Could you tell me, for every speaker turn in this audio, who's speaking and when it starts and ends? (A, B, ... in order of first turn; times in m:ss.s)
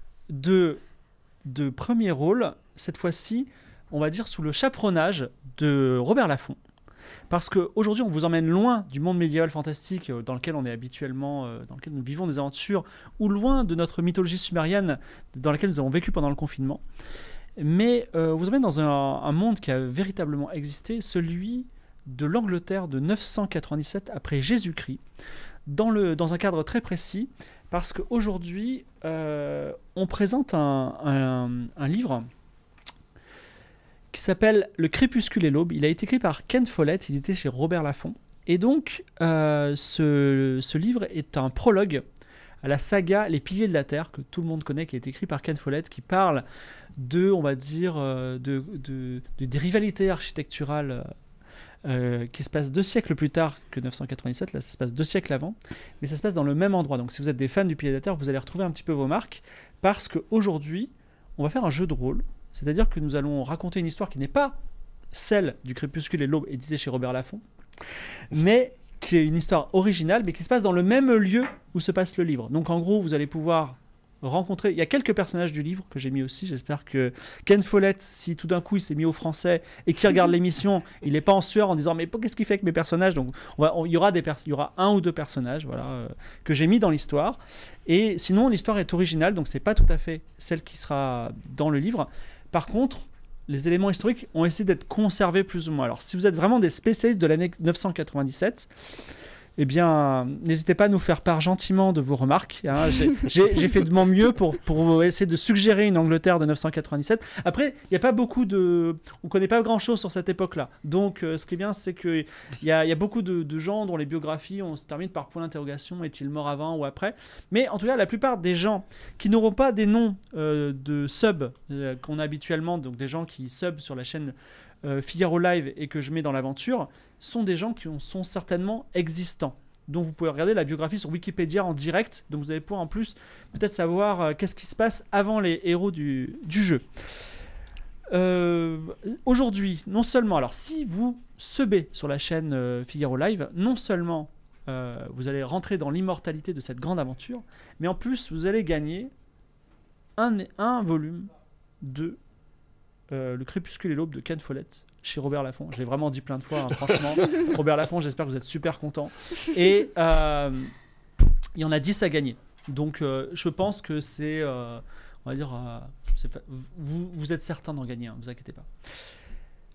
0:00.3-0:00.8 A
0:01.4-0:06.6 A
0:07.3-0:16.8 A
0:17.6-0:25.0 A
0:25.7-0:32.3 A
0:34.1-0:42.0 A
0:42.6-0:46.5 A
0:47.0-0:51.1 A
0:51.8-1:04.6 A
1:05.1-1:07.4 A
1:08.3-1:38.7 A
1:39.6-2:16.9 A
2:18.1-2:29.1 A
2:30.2-2:32.2 A
2:33.1-2:40.7 A
2:41.6-2:48.7 A